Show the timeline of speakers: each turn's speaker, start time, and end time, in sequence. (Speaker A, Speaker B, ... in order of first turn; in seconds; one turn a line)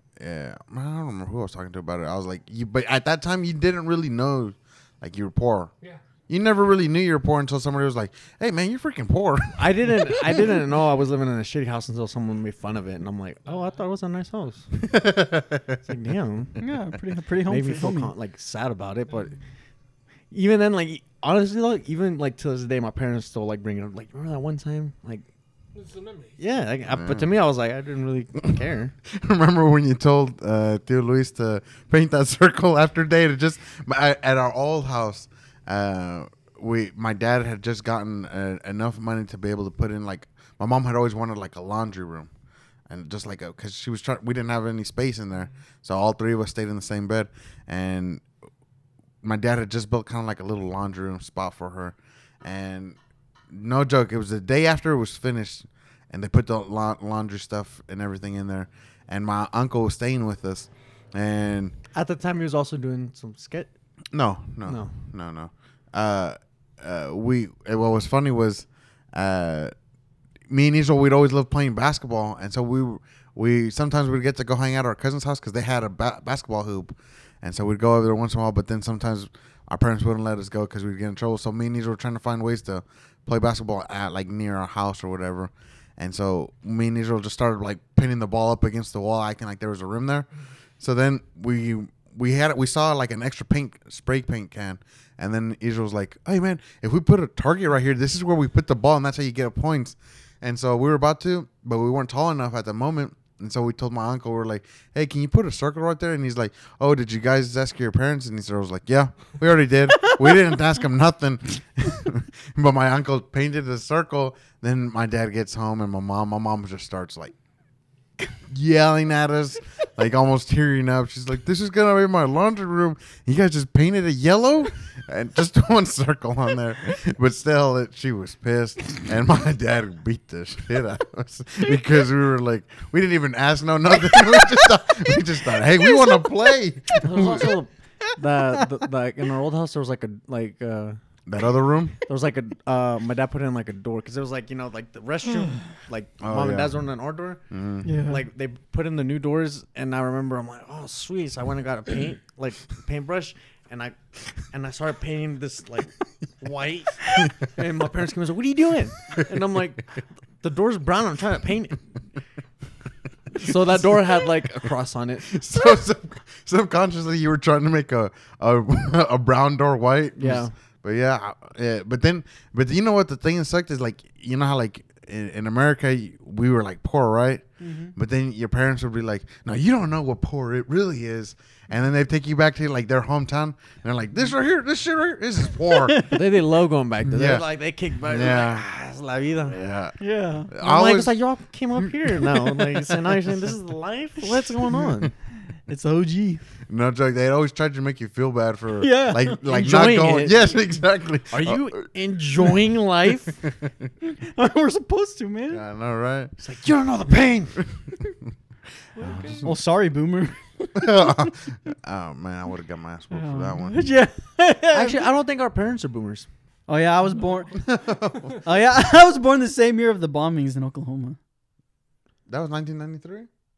Speaker A: 0.2-5.7
Speaker A: 6.3-10.4
Speaker B: 9.6-14.7
Speaker C: 13.5-13.8
Speaker A: 14.7-15.8
Speaker B: 15.8-16.6
Speaker D: 16.6-18.1
Speaker B: 17.5-19.4
Speaker C: 19.1-19.4
Speaker B: 20.3-25.2
Speaker C: 25.7-26.4
Speaker B: 26.4-28.9
Speaker A: 26.9-27.3
Speaker A: 29.0-42.3
Speaker A: 42.9-48.3
Speaker A: 49.2-53.0
Speaker A: 53.5-61.8
Speaker B: 61.9-63.7
Speaker A: 64.1-69.7
Speaker B: 64.7-65.0
Speaker A: 70.5-90.3
Speaker A: 90.8-117.3
Speaker A: 118.5-137.6
Speaker B: 137.0-141.0
Speaker A: 141.3-142.0
Speaker B: 142.1-147.5
Speaker A: 146.2-146.8
Speaker A: 147.5-147.9
Speaker D: 147.8-148.2
Speaker B: 148.0-161.8
Speaker A: 163.3-164.3
Speaker B: 163.3-165.3
Speaker A: 165.3-186.1
Speaker B: 170.2-170.5
Speaker D: 177.6-177.9
Speaker D: 185.7-186.3
Speaker B: 186.1-189.6
Speaker A: 187.1-187.5
Speaker A: 188.0-188.7
Speaker A: 189.5-190.0
Speaker D: 190.0-190.5
Speaker A: 190.5-191.2
Speaker B: 190.6-195.1
Speaker D: 192.2-193.2
Speaker D: 194.6-195.1
Speaker D: 195.7-196.4
Speaker A: 196.7-201.8
Speaker D: 198.8-199.5
Speaker B: 199.5-200.5
Speaker B: 201.3-203.4
Speaker A: 203.4-203.9
Speaker D: 204.0-205.6
Speaker A: 205.5-206.3
Speaker B: 206.4-207.6
Speaker C: 208.9-209.5
Speaker A: 209.0-209.6
Speaker D: 209.4-211.4
Speaker A: 210.8-213.8
Speaker D: 213.1-215.1
Speaker B: 214.7-216.3
Speaker D: 216.7-217.7
Speaker C: 217.1-218.4
Speaker A: 217.6-218.4
Speaker D: 218.4-221.2
Speaker A: 222.3-223.3